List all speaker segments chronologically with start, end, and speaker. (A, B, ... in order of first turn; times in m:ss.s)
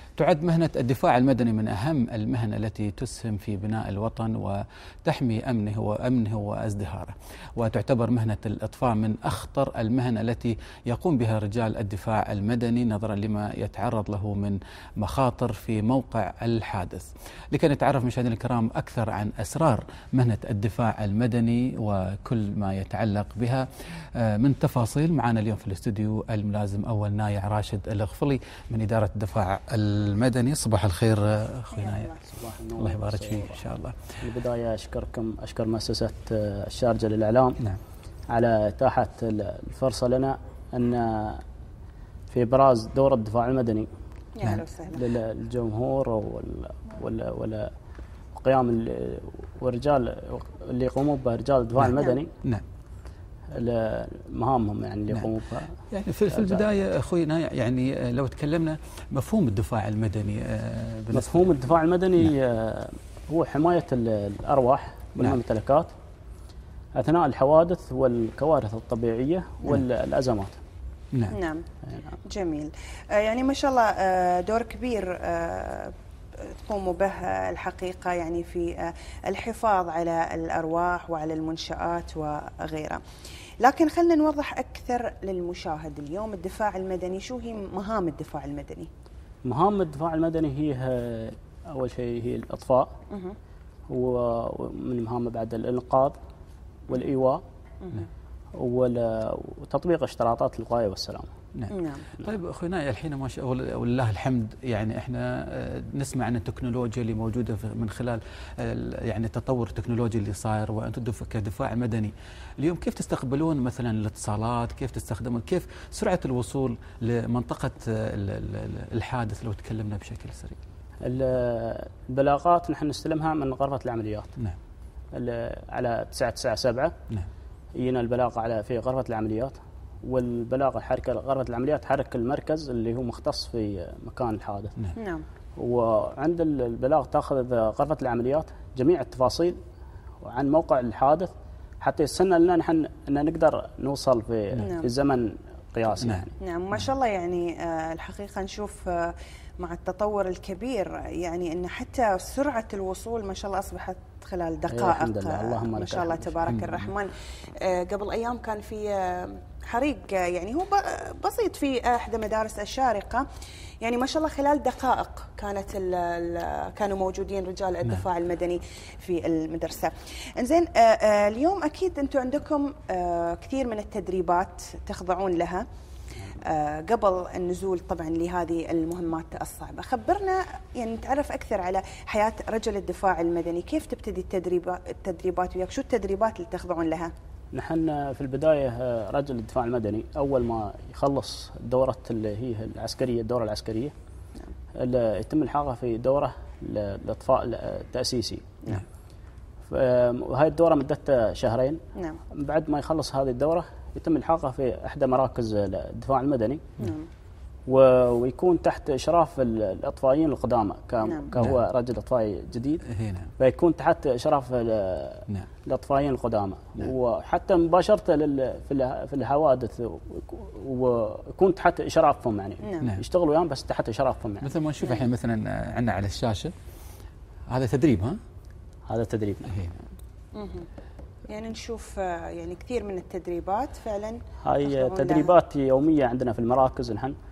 0:00.2-0:32.1 A
0:31.7-0:32.2 B
0:32.3-0:33.6 C
0:32.8-0:34.2 A
0:34.2-0:37.6 C
0:38.3-0:41.4 C
0:42.3-0:43.9 C
0:44.4-0:45.0 B
0:44.9-0:47.7 C
0:48.3-0:52.3 C
0:51.9-0:52.2 B
0:53.5-0:55.8 C
0:55.9-1:01.7 A
0:56.3-0:56.7 C
1:01.1-1:05.9 C
1:06.9-1:10.6 C
1:11.3-1:11.6 B
1:11.9-1:12.2 C
1:12.2-1:15.9 B
1:16.4-1:23.0 B
1:23.6-1:28.9 B
1:29.4-1:32.9 C
1:33.1-1:33.4 B
1:33.9-1:36.2 C
1:36.9-1:37.4 C
1:37.8-1:38.1 B
1:38.5-1:41.3 C
1:41.5-2:00.6 A
1:41.7-1:42.1 B
2:01.0-2:04.3 C
2:05.1-2:06.9 C
2:07.7-2:14.7 C
2:15.0-2:15.2 B
2:15.6-2:19.6 C
2:20.2-2:26.3 C
2:24.6-2:24.9 B
2:26.4-2:43.2 B
2:34.7-2:36.6 C
2:36.5-2:36.9 A
2:43.8-2:55.6 B
2:56.4-3:07.1 B
3:07.5-3:13.9 C
3:14.7-3:18.5 C
3:19.7-3:21.8 C
3:21.9-3:22.2 B
3:22.3-3:26.6 C
3:26.8-3:27.1 B
3:27.7-3:32.8 C
3:31.0-3:31.3 B
3:32.8-3:33.3 A
3:33.4-3:44.5 C
3:42.6-3:42.9 B
3:44.4-3:46.5 A
3:47.5-3:48.2 A
3:48.8-3:49.6 C
3:49.5-3:49.7 A
3:50.3-3:50.7 B
3:51.3-3:55.3 B
3:54.4-3:57.2 C